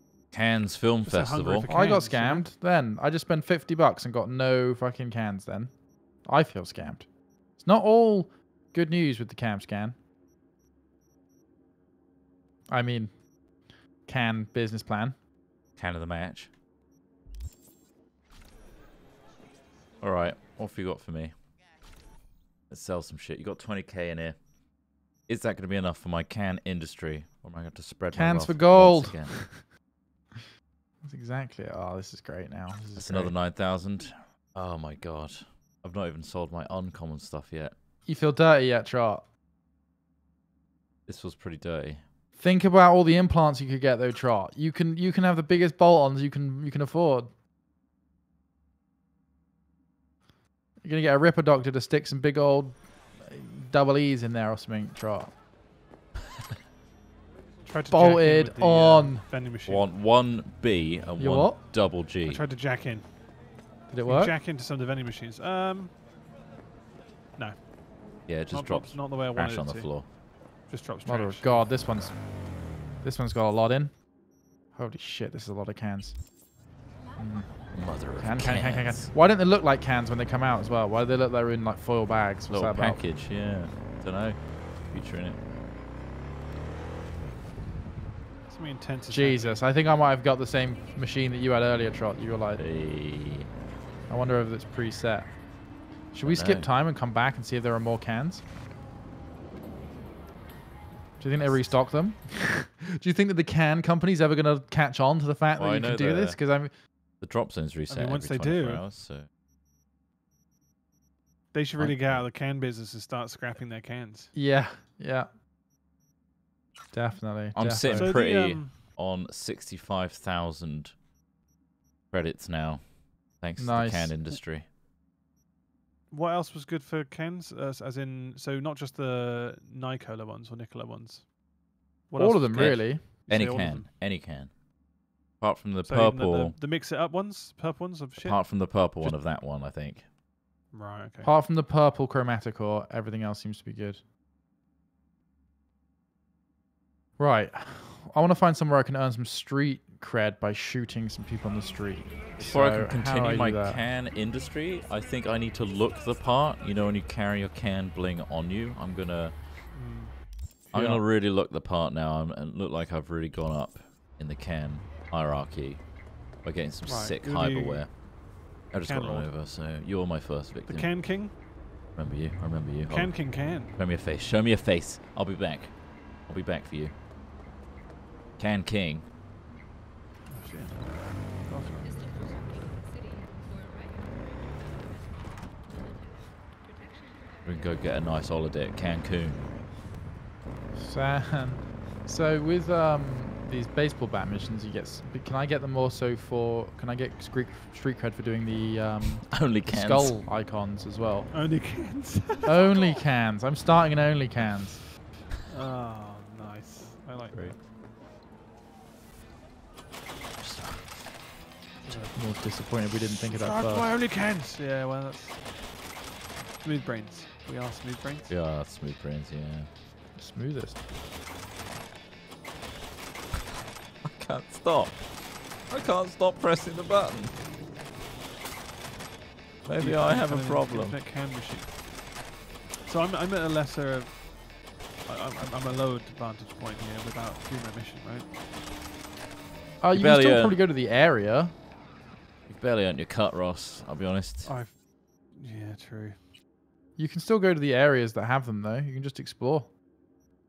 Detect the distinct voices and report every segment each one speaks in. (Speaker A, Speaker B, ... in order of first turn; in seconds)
Speaker A: 0.3-1.7, 15.8-16.5, 20.0-21.4, 22.7-24.4, 25.3-29.4, 32.9-37.8, 41.1-42.0, 59.6-62.4, 68.2-70.1, 77.7-79.1, 82.5-85.4, 92.6-93.5, 96.2-96.7, 101.4-101.8, 105.5-106.4, 107.1-109.3, 111.8-112.3, 117.5-121.0, 122.1-124.7, 132.5-134.6, 135.4-136.6, 138.2-140.1, 152.4-159.4, 160.7-165.9, 166.4-168.0, 168.7-171.1, 171.9-176.9, 178.4-179.1, 187.4-189.4, 199.3-200.2, 207.3-207.6, 210.4-211.0, 218.3-219.7, 224.0-225.0, 225.7-227.4, 229.6-231.0, 239.9-240.6, 242.5-244.5
Speaker B: 1.0-2.5, 57.6-59.9, 62.2-63.2, 64.0-66.0, 67.3-67.7, 68.5-70.1, 70.6-71.7, 88.5-89.6, 107.9-108.8, 111.5-114.3, 117.9-118.8, 126.1-131.3, 132.1-133.9, 135.8-138.6, 140.7-141.3, 159.7-160.2, 166.8-168.0, 168.8-169.3, 170.6-171.3, 172.8-173.7, 180.3-182.5, 201.3-202.7, 205.4-207.6, 211.8-215.4, 216.6-218.3, 229.8-231.8, 232.8-234.3, 235.0-238.3, 244.4-246.2
Speaker C: 1.7-10.0, 12.7-13.2, 14.0-15.2, 28.1-29.7, 31.0-33.4, 38.0-39.3, 42.4-47.3, 50.8-55.3, 57.9-59.2, 61.2-61.6, 63.9-64.4, 71.0-72.2, 73.0-74.0, 74.7-76.2, 77.2-83.0, 89.1-92.6, 94.1-95.4, 96.1-98.5, 101.2-106.8, 114.3-115.3, 116.9-118.2, 123.6-124.4, 132.2-133.1, 141.2-144.0, 147.2-153.8, 160.7-161.0, 190.7-201.3, 202.4-204.9, 212.1-213.9, 220.2-220.8, 239.8-241.6, 247.0-249.7